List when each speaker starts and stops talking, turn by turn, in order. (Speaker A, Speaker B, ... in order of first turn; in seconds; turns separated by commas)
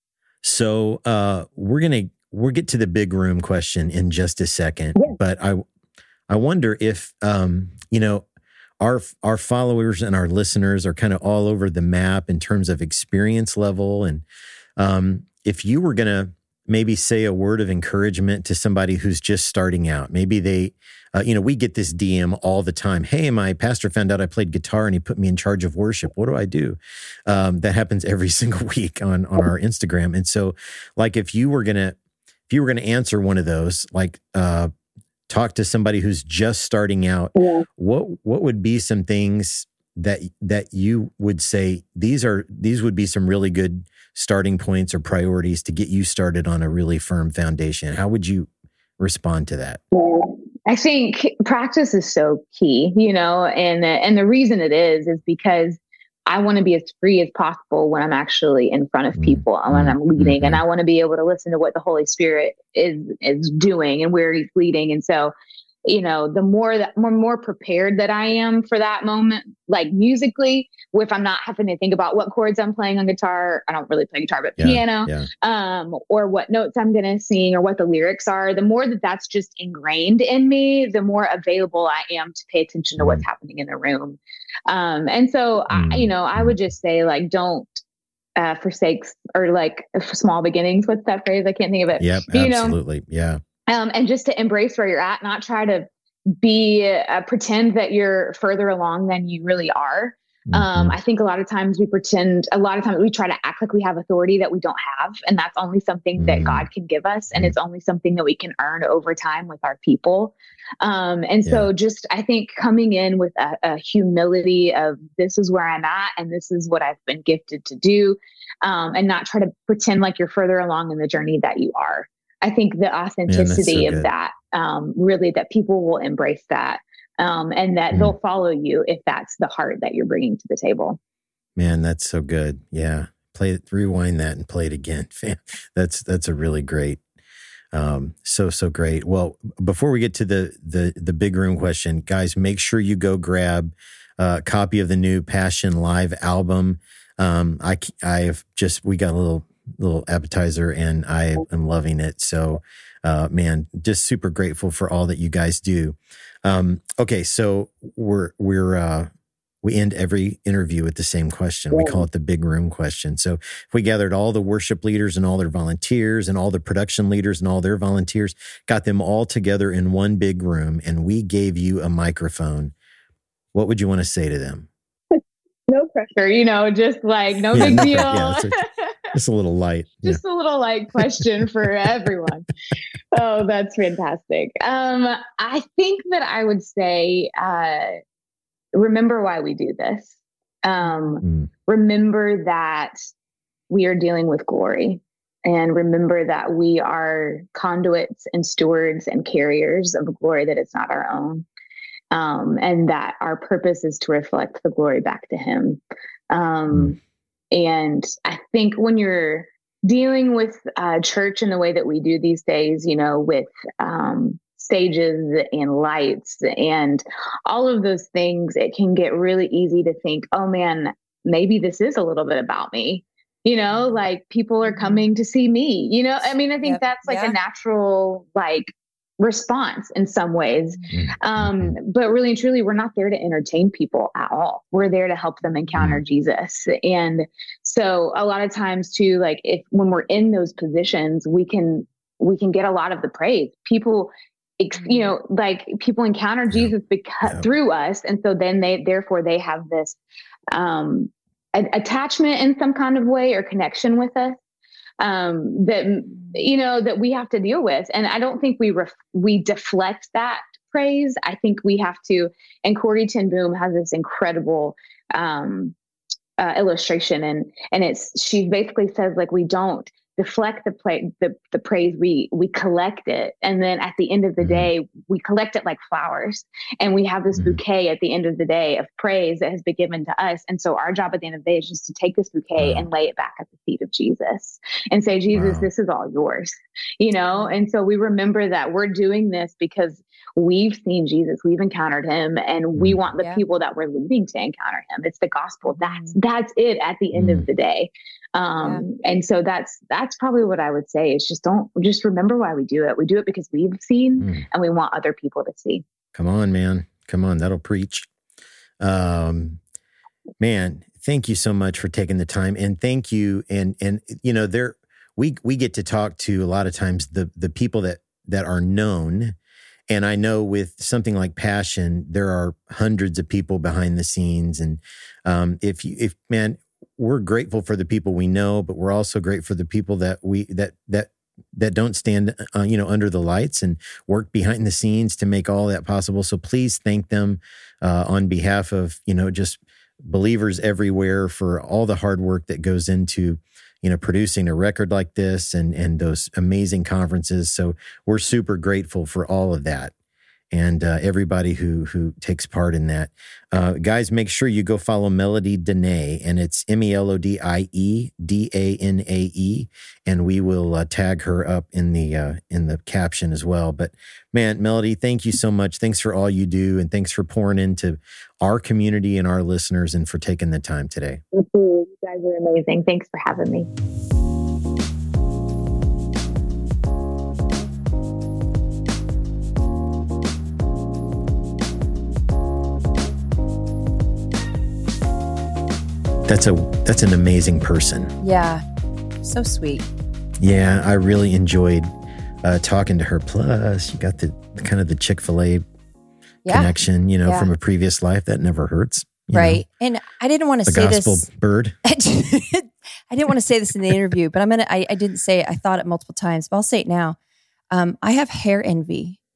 Speaker A: 0.4-5.6, Speaker A: 6.3-8.3, Speaker A: 8.8-14.3, Speaker A: 14.8-32.0, Speaker A: 32.5-34.7, Speaker A: 35.3-49.8, Speaker B: 37.4-37.6, Speaker B: 49.9-65.3, Speaker A: 59.2-60.6, Speaker B: 65.9-87.7, Speaker A: 74.6-75.3, Speaker A: 83.0-83.2, Speaker A: 85.7-86.5, Speaker B: 88.4-92.8, Speaker A: 92.0-93.4, Speaker B: 93.7-95.9, Speaker B: 96.4-131.0, Speaker A: 100.5-101.0, Speaker A: 106.2-106.7, Speaker A: 123.3-124.1, Speaker A: 131.6-137.0, Speaker A: 137.7-159.1, Speaker A: 159.6-172.7, Speaker B: 161.7-162.0, Speaker A: 173.5-174.7, Speaker B: 175.1-178.9, Speaker A: 177.5-178.6, Speaker A: 179.1-180.2, Speaker B: 180.0-182.5, Speaker B: 183.1-188.0, Speaker B: 188.7-190.1, Speaker B: 190.6-192.9, Speaker A: 191.2-191.5, Speaker B: 193.7-201.4, Speaker B: 202.1-207.0, Speaker B: 207.5-250.0, Speaker C: 226.6-227.4, Speaker A: 230.9-231.8, Speaker A: 235.8-236.0, Speaker C: 244.8-245.1, Speaker B: 250.5-254.4, Speaker B: 255.0-265.8, Speaker B: 266.4-305.9, Speaker A: 274.4-274.7, Speaker A: 282.6-282.9, Speaker A: 285.3-285.7, Speaker A: 292.8-293.0, Speaker C: 295.7-296.2, Speaker A: 297.1-297.5, Speaker A: 304.2-304.5, Speaker A: 306.1-308.1, Speaker A: 308.8-309.6, Speaker A: 310.4-319.4, Speaker A: 319.9-349.9, Speaker A: 350.5-371.2, Speaker B: 371.3-373.7, Speaker A: 386.3-388.1, Speaker C: 388.2-388.6, Speaker C: 389.2-389.9, Speaker A: 390.4-391.9, Speaker A: 392.4-395.6, Speaker C: 396.4-396.7, Speaker A: 396.5-399.6, Speaker C: 397.2-397.5, Speaker C: 399.3-401.3, Speaker A: 400.7-401.8, Speaker C: 401.9-407.2, Speaker C: 407.7-409.2